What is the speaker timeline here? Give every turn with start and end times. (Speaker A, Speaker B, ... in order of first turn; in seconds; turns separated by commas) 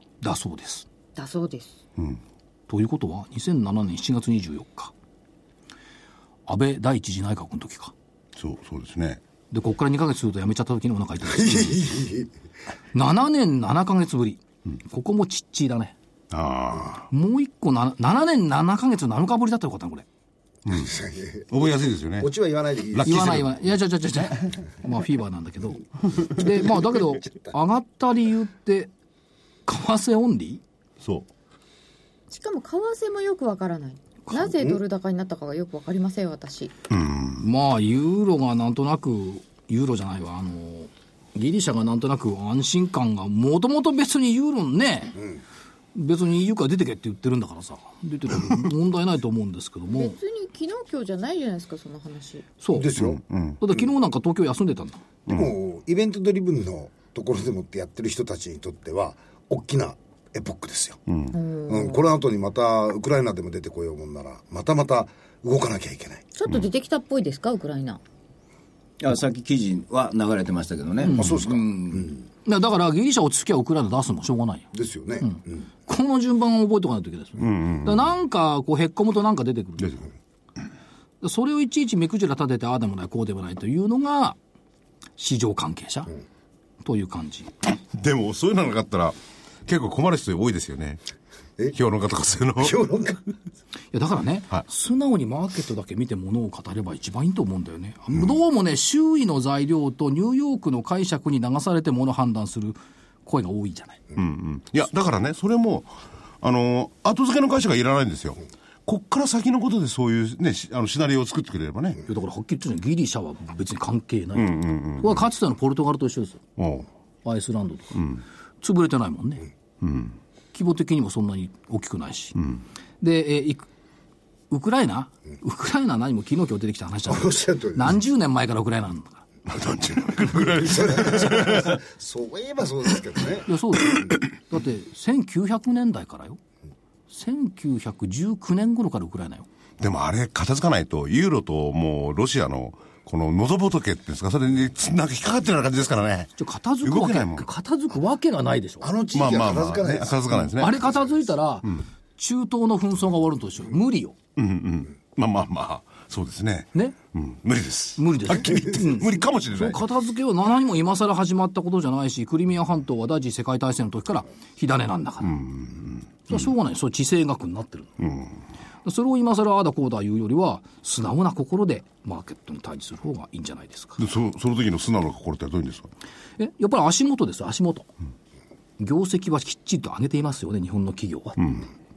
Speaker A: 0.2-0.9, Speaker B: 1.2-1.8, Speaker A: 2.7-4.9, Speaker A: 6.5-7.9, Speaker C: 8.3-9.2, Speaker A: 9.5-11.8, Speaker D: 11.2-12.3, Speaker A: 12.9-15.9, Speaker C: 16.3-17.1, Speaker A: 17.1-20.1, Speaker C: 20.7-20.9, Speaker D: 20.7-23.4, Speaker C: 21.5-22.3, Speaker C: 22.9-23.5, Speaker A: 23.0-28.9, Speaker A: 29.7-30.6, Speaker C: 31.0-31.3, Speaker B: 32.3-36.7, Speaker C: 36.9-37.4, Speaker A: 37.4-45.2, Speaker A: 45.9-50.2, Speaker B: 49.9-52.5, Speaker A: 52.6-52.9, Speaker D: 52.7-53.2, Speaker C: 53.0-53.6, Speaker A: 53.6-55.0, Speaker C: 55.3-55.5, Speaker D: 55.3-61.0, Speaker C: 61.1-61.4, Speaker B: 61.3-62.0, Speaker D: 61.7-66.2, Speaker B: 66.3-68.0, Speaker E: 69.0-72.2, Speaker A: 71.0-71.5, Speaker D: 71.1-72.1, Speaker A: 72.5-74.7, Speaker D: 74.7-75.7, Speaker A: 75.2-80.0, Speaker C: 77.4-78.1, Speaker A: 81.2-84.4, Speaker A: 85.2-86.1, Speaker A: 86.8-87.5, Speaker C: 87.9-91.0, Speaker C: 91.7-92.8, Speaker D: 92.5-93.3, Speaker A: 93.9-104.0, Speaker C: 104.2-112.0, Speaker A: 112.0-116.4, Speaker C: 114.3-115.2, Speaker C: 116.6-116.9, Speaker A: 117.2-118.1, Speaker A: 118.6-119.5, Speaker C: 119.8-120.2, Speaker A: 120.5-122.4, Speaker A: 123.0-123.7, Speaker A: 124.5-129.2, Speaker D: 127.1-128.0, Speaker C: 129.5-131.7, Speaker D: 130.3-134.2, Speaker A: 133.5-136.4, Speaker A: 137.1-139.5, Speaker C: 139.8-147.4, Speaker A: 146.4-148.9, Speaker D: 148.8-150.3, Speaker C: 149.1-150.8, Speaker A: 150.5-154.2, Speaker C: 154.3-159.8, Speaker A: 158.0-165.5, Speaker C: 165.2-166.4, Speaker A: 166.3-168.0, Speaker C: 168.0-168.3, Speaker A: 168.8-174.0, Speaker C: 174.0-175.9, Speaker A: 176.4-177.9, Speaker A: 178.8-181.4, Speaker C: 181.4-181.7